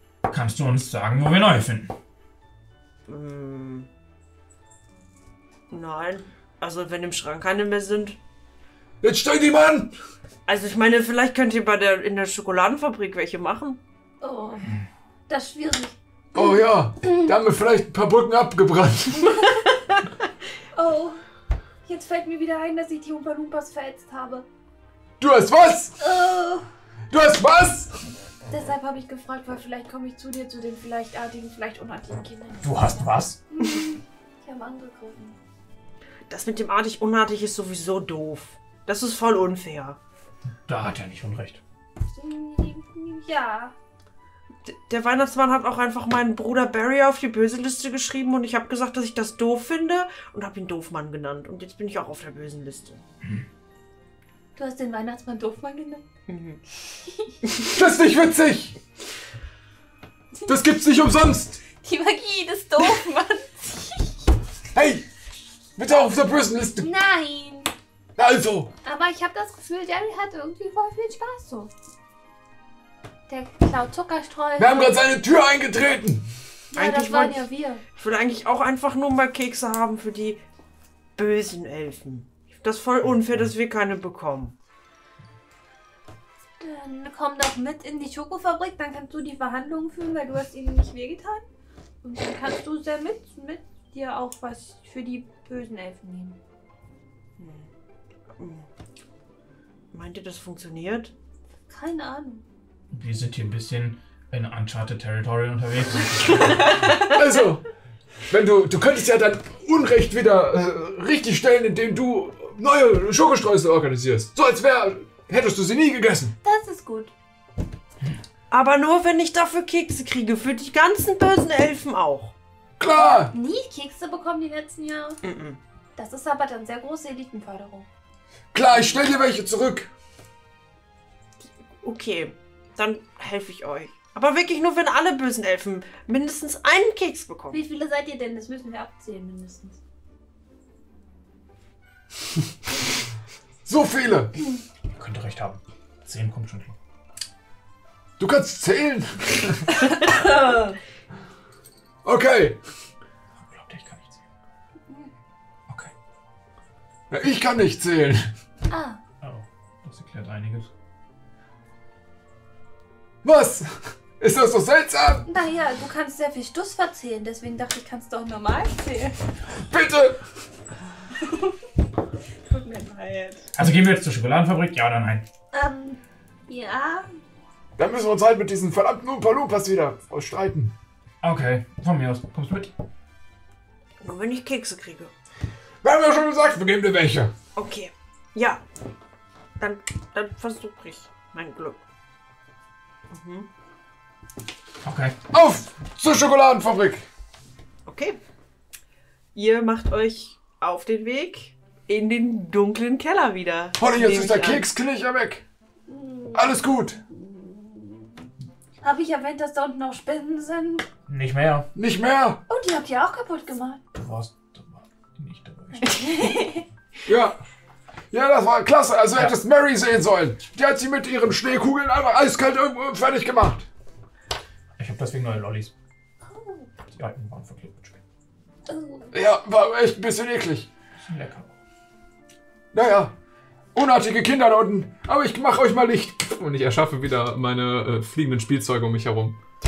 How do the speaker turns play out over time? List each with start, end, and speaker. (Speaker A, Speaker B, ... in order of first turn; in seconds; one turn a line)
Speaker A: 0.2-1.9
Speaker B: 3.1-3.9
Speaker B: 5.7-8.2
Speaker C: 9.0-9.9
Speaker B: 10.5-13.8
Speaker D: 14.2-16.6
Speaker C: 16.3-19.4
Speaker D: 20.7-21.2
Speaker D: 21.8-24.4
Speaker C: 25.2-25.9
Speaker D: 26.0-26.6
Speaker C: 27.1-28.0
Speaker D: 28.5-35.4
Speaker A: 32.6-33.4
Speaker B: 36.3-40.0
Speaker A: 40.7-41.6
Speaker D: 42.1-43.7
Speaker B: 44.6-53.0
Speaker D: 54.5-56.0
Speaker B: 56.3-56.6
Speaker C: 57.7-58.8
Speaker C: 60.5-61.6
Speaker D: 61.8-64.2
Speaker C: 64.7-65.0
Speaker C: 65.8-66.9
Speaker D: 66.8-67.7
Speaker C: 68.2-68.7
Speaker D: 68.8-71.7
Speaker D: 73.3-75.0
Speaker C: 74.6-76.2
Speaker D: 76.7-77.8
Speaker B: 76.7-77.4
Speaker B: 78.0-80.4
Speaker B: 81.2-84.5
Speaker D: 86.6-91.4
Speaker D: 92.0-96.4
Speaker B: 97.4-97.7
Speaker B: 98.4-98.7
Speaker B: 99.9-101.1
Speaker D: 101.7-102.4
Speaker A: 102.9-106.8
Speaker C: 107.0-107.7
Speaker C: 108.3-116.3
Speaker D: 116.4-117.1
Speaker B: 118.5-122.3
Speaker C: 122.8-123.3
Speaker D: 122.9-125.2
Speaker B: 125.2-125.6
Speaker D: 126.0-127.9
Speaker C: 128.5-129.9
Speaker B: 131.8-137.6
Speaker D: 137.5-139.8
Speaker C: 143.6-144.3
Speaker A: 144.9-146.7
Speaker C: 148.2-149.6
Speaker D: 150.0-150.7
Speaker C: 152.0-152.6
Speaker A: 153.4-154.2
Speaker C: 157.1-158.3
Speaker D: 158.7-159.0
Speaker A: 159.2-160.7
Speaker C: 163.2-165.3
Speaker D: 165.3-169.2
Speaker C: 169.6-170.2
Speaker D: 171.2-171.5
Speaker D: 172.5-173.4
Speaker A: 173.5-175.2
Speaker D: 175.5-177.1
Speaker C: 177.8-180.7
Speaker A: 181.2-182.7
Speaker B: 184.0-185.1
Speaker C: 185.8-187.3
Speaker B: 187.6-188.6
Speaker B: 189.6-191.8
Speaker B: 193.1-193.5
Speaker A: 194.8-195.2
Speaker C: 195.3-197.1
Speaker B: 197.9-198.2
Speaker B: 199.3-204.6
Speaker C: 203.8-205.4
Speaker D: 205.9-208.1
Speaker C: 206.3-207.0
Speaker D: 208.8-210.8
Speaker A: 211.1-211.7
Speaker C: 211.7-212.4
Speaker D: 212.5-213.8
Speaker A: 213.9-215.9
Speaker D: 215.7-216.6
Speaker C: 217.1-217.4
Speaker C: 218.1-223.7
Speaker A: 224.8-225.7
Speaker D: 226.2-226.7
Speaker A: 226.9-228.0
Speaker D: 228.7-229.1
Speaker C: 229.1-230.7
Speaker A: 231.0-231.5
Speaker C: 232.7-233.1
Speaker C: 233.7-236.3
Speaker E: 236.3-239.4